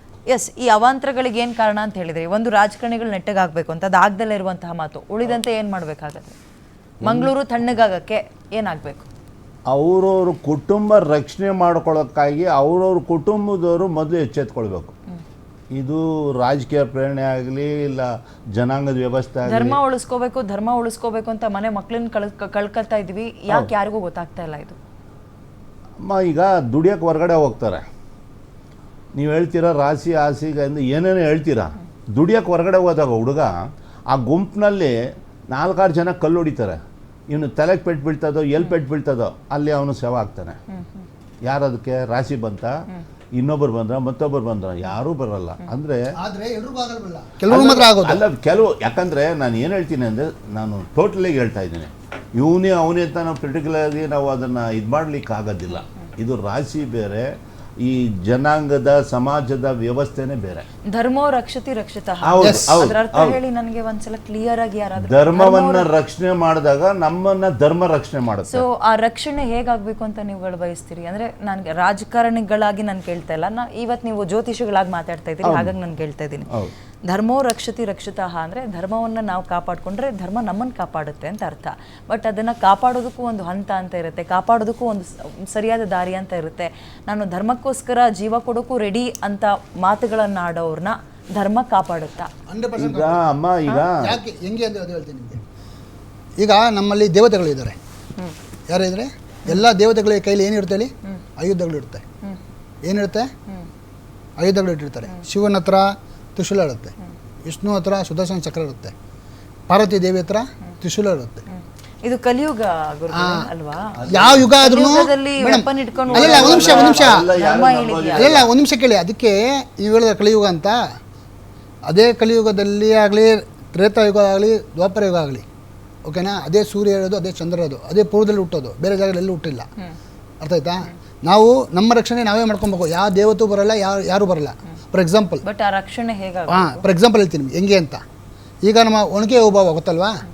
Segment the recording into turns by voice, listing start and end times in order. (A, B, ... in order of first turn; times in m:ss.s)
0:00.3-0:06.4 A
0:07.0-0:07.3 B
0:07.0-0:09.1 A
0:09.7-0:14.9 B
0:15.7-0:19.8 B
0:19.4-0:24.8 A
0:26.0-0:27.8 B
0:29.1-0:35.0 B
0:35.5-0:40.6 B
0:41.4-0:42.8 B
0:43.4-0:46.0 B
0:46.2-0:48.2 C
0:47.5-0:57.3 B
0:57.8-1:00.7 B
1:00.9-1:05.9 A
1:02.2-1:03.4 B
1:02.4-1:02.9 C
1:05.0-1:08.7 B
1:08.5-1:16.5 A
1:15.4-1:15.7 B
1:17.1-1:32.3 A
1:32.5-1:33.2 C
1:32.8-1:34.2 B
1:33.8-1:35.4 C
1:36.4-1:37.8 C
1:38.7-1:42.0 C
1:42.8-1:43.3 C
1:44.4-1:46.9 C
1:47.4-1:48.9 C
1:49.7-1:51.4 C
1:51.5-1:54.0 A
1:53.1-1:53.5 C
1:54.0-1:54.5 B
1:54.1-1:57.3 C
1:54.6-1:58.4 A
1:56.0-1:58.5 B
1:58.2-2:00.8 C
2:01.9-2:05.4 C
2:06.0-2:09.7 C
2:10.4-2:15.4 C
2:15.4-2:16.8 A
2:16.5-2:18.0 C
2:18.6-2:20.1 C